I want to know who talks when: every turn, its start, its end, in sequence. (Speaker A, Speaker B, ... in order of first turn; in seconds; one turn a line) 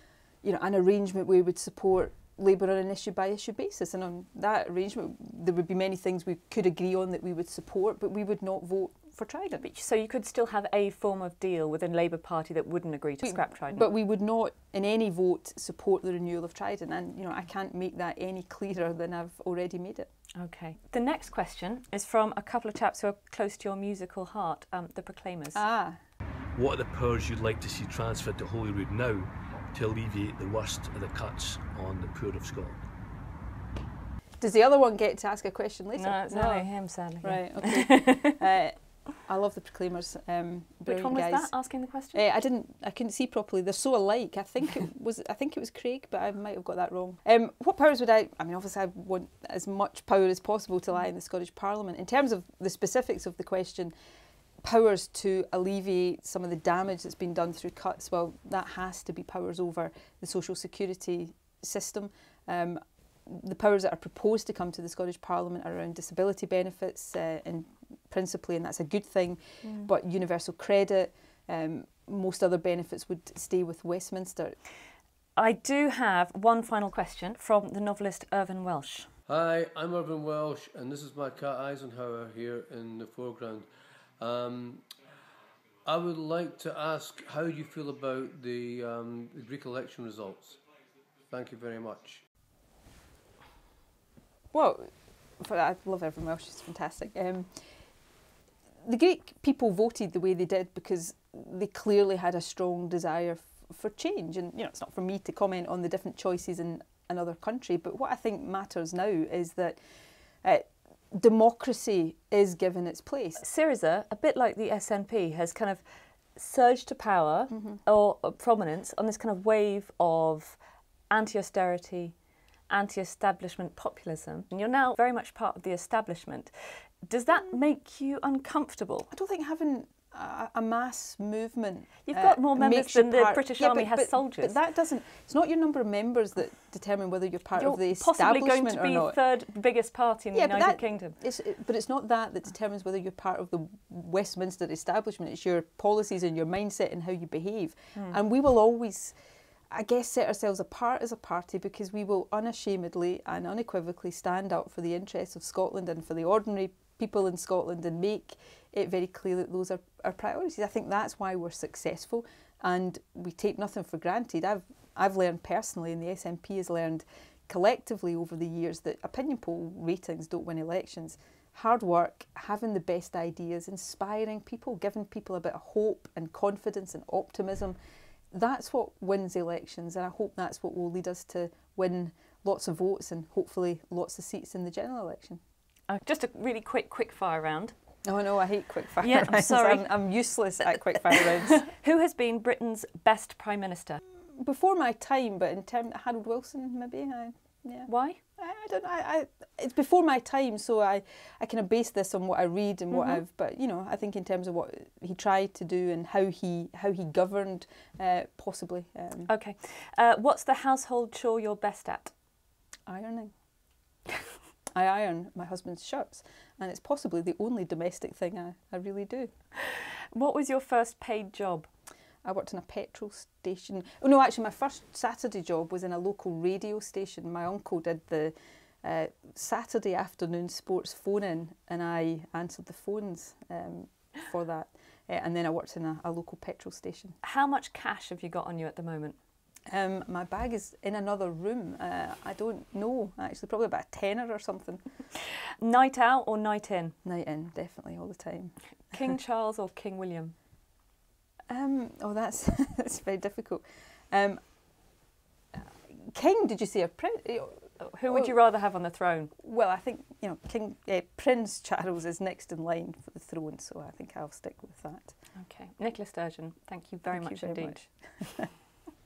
Speaker A: 0.4-9.6
Speaker B: 9.6-13.8
Speaker A: 13.2-20.1
Speaker B: 20.4-25.6
Speaker A: 25.5-26.0
Speaker C: 26.6-32.8
Speaker A: 34.4-53.9
Speaker B: 36.0-38.4
Speaker B: 40.9-42.2
Speaker A: 54.6-74.5
Speaker B: 75.4-79.1
Speaker D: 79.3-83.7
Speaker D: 84.2-84.8
Speaker D: 85.9-90.6
Speaker D: 91.3-92.2
Speaker A: 94.5-94.9
Speaker A: 95.4-97.5
Speaker A: 98.8-109.8
Speaker A: 110.4-113.4
Speaker B: 113.4-115.8
Speaker B: 116.4-120.6
Speaker A: 117.5-117.8
Speaker B: 121.1-122.1
Speaker B: 122.7-129.1
Speaker A: 129.1-139.2
Speaker B: 132.1-134.6
Speaker B: 137.6-141.2
Speaker A: 140.3-149.2
Speaker A: 149.7-177.8
Speaker A: 178.3-185.4
Speaker B: 185.9-187.7
Speaker A: 188.1-191.7
Speaker B: 189.0-189.9
Speaker B: 190.7-194.0
Speaker A: 194.3-209.3
Speaker B: 197.9-198.2
Speaker B: 202.9-203.2
Speaker B: 209.3-212.1
Speaker A: 212.9-213.3
Speaker A: 214.7-219.3
Speaker B: 219.7-221.7
Speaker A: 222.2-237.2
Speaker B: 237.2-239.2
Speaker A: 239.7-244.8
Speaker B: 245.6-246.9
Speaker A: 247.0-249.2
Speaker B: 248.9-250.3
Speaker A: 251.5-254.4
Speaker A: 255.6-258.4
Speaker B: 257.8-259.3
Speaker A: 259.4-265.1
Speaker B: 265.4-268.0
Speaker A: 267.1-268.5